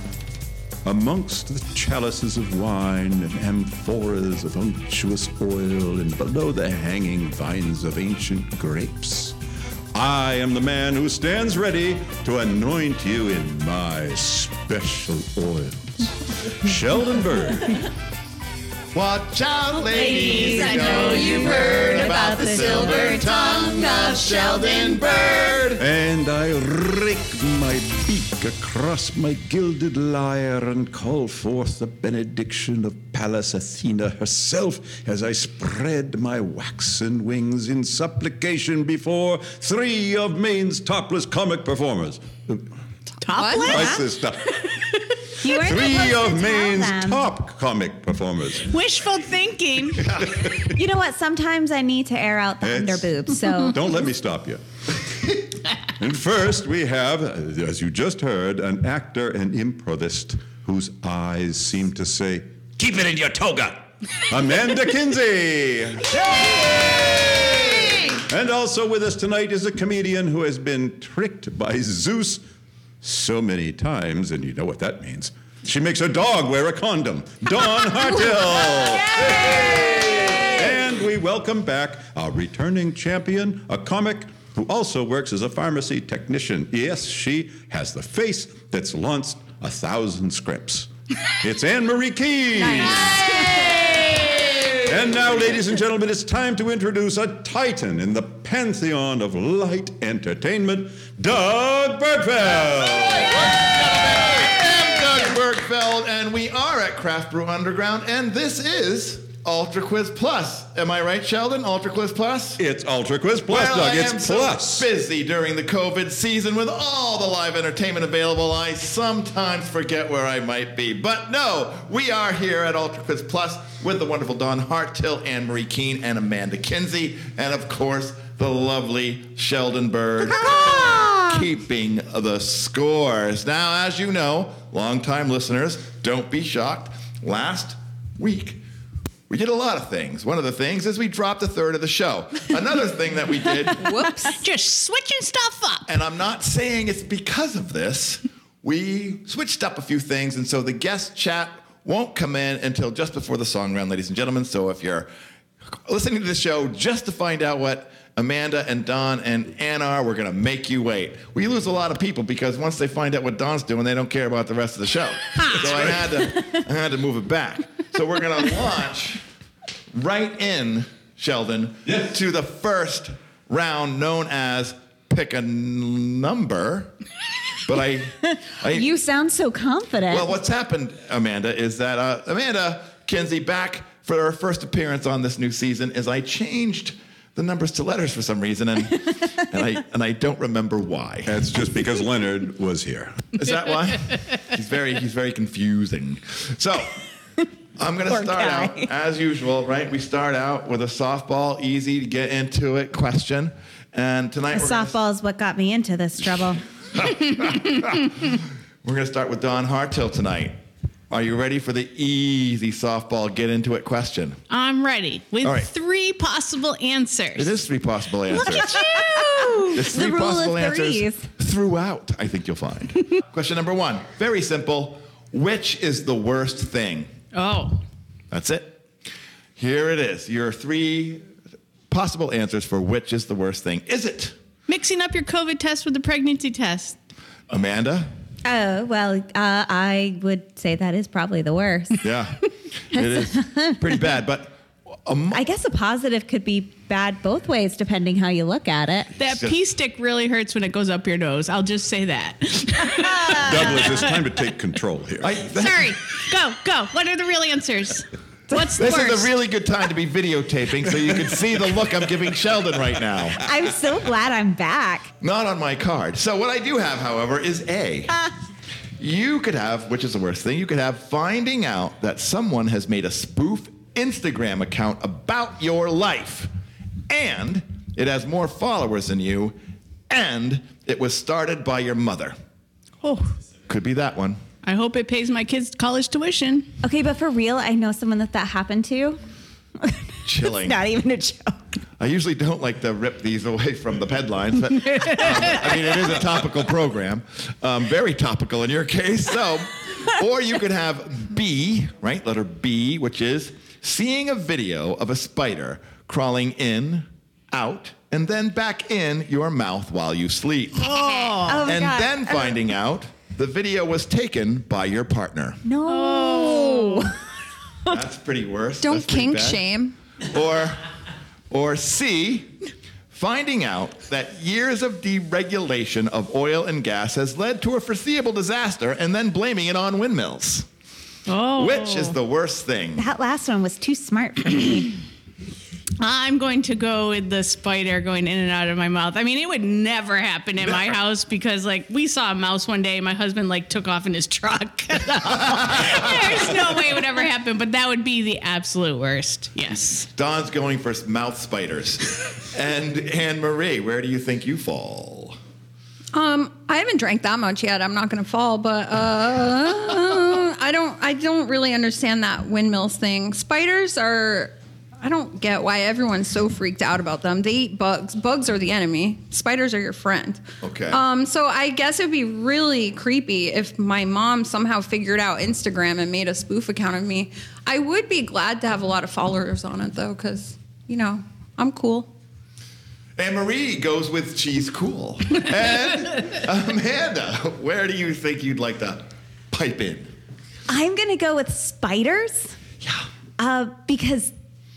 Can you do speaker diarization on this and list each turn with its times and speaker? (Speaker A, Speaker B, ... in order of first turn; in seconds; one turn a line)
Speaker A: 0.8-9.3
Speaker A: 9.9-17.8
Speaker B: 18.9-25.8
Speaker C: 19.9-25.1
Speaker D: 20.0-25.0
Speaker A: 25.8-42.6
Speaker E: 43.2-44.0
Speaker D: 43.3-43.9
Speaker A: 43.6-44.8
Speaker C: 45.4-47.3
Speaker A: 45.5-48.7
Speaker E: 48.6-50.1
Speaker B: 50.0-50.5
Speaker A: 50.1-50.7
Speaker C: 50.6-53.8
Speaker A: 52.6-54.6
Speaker A: 55.9-62.4
Speaker B: 62.8-63.8
Speaker A: 64.2-72.4
Speaker A: 73.0-93.5
Speaker D: 79.1-80.4
Speaker D: 92.6-94.1
Speaker B: 94.5-94.8
Speaker A: 94.8-103.7
Speaker B: 102.8-112.6
Speaker A: 112.6-114.9
Speaker B: 113.5-138.6
Speaker C: 130.2-131.4
Speaker B: 139.3-143.9
Speaker D: 143.8-144.4
Speaker E: 144.2-145.9
Speaker B: 145.9-155.1
Speaker B: 155.8-169.2
Speaker B: 169.9-176.9
Speaker B: 177.6-178.9
Speaker C: 178.2-180.3
Speaker B: 180.1-191.4
Speaker A: 191.2-193.4
Speaker B: 193.3-196.9
Speaker B: 197.8-204.9
Speaker C: 198.1-198.9
Speaker C: 204.5-206.6
Speaker B: 206.9-210.6
Speaker B: 211.1-214.4
Speaker E: 214.5-217.6
Speaker B: 215.4-215.7
Speaker B: 217.3-218.7
Speaker E: 218.3-219.8
Speaker C: 218.5-221.2
Speaker B: 219.7-227.1
Speaker E: 227.3-227.8
Speaker B: 228.3-228.8
Speaker B: 229.6-231.2
Speaker B: 231.9-234.3
Speaker E: 234.7-237.0
Speaker B: 237.5-238.1
Speaker C: 238.4-242.0
Speaker B: 242.0-245.4
Speaker C: 242.9-243.8
Speaker C: 245.3-249.1
Speaker B: 249.2-249.6
Speaker E: 249.2-254.4
Speaker C: 253.0-253.9
Speaker A: 253.4-255.3
Speaker B: 255.2-255.9
Speaker E: 255.5-259.3
Speaker B: 258.8-263.4
Speaker C: 263.4-265.1
Speaker B: 265.2-268.2
Speaker B: 269.0-276.5
Speaker B: 277.1-279.6
Speaker B: 280.1-282.3
Speaker E: 283.0-283.3
Speaker B: 283.7-284.4
Speaker E: 284.6-286.7
Speaker C: 286.8-289.2
Speaker C: 289.8-291.6
Speaker B: 290.2-290.8
Speaker B: 292.0-315.6
Speaker E: 295.1-295.4
Speaker E: 310.7-311.7
Speaker C: 311.4-312.6
Speaker C: 315.6-317.2
Speaker E: 315.9-317.1
Speaker B: 317.9-319.6
Speaker D: 318.8-320.0
Speaker B: 320.2-320.8
Speaker B: 321.5-322.5
Speaker B: 323.1-330.7
Speaker E: 331.3-332.2
Speaker B: 331.5-333.0
Speaker C: 333.0-334.9
Speaker E: 336.0-350.1
Speaker B: 345.3-346.6
Speaker B: 350.0-355.4
Speaker D: 356.1-382.1
Speaker B: 370.6-371.0
Speaker B: 383.2-390.1
Speaker C: 390.7-392.5
Speaker C: 393.4-394.3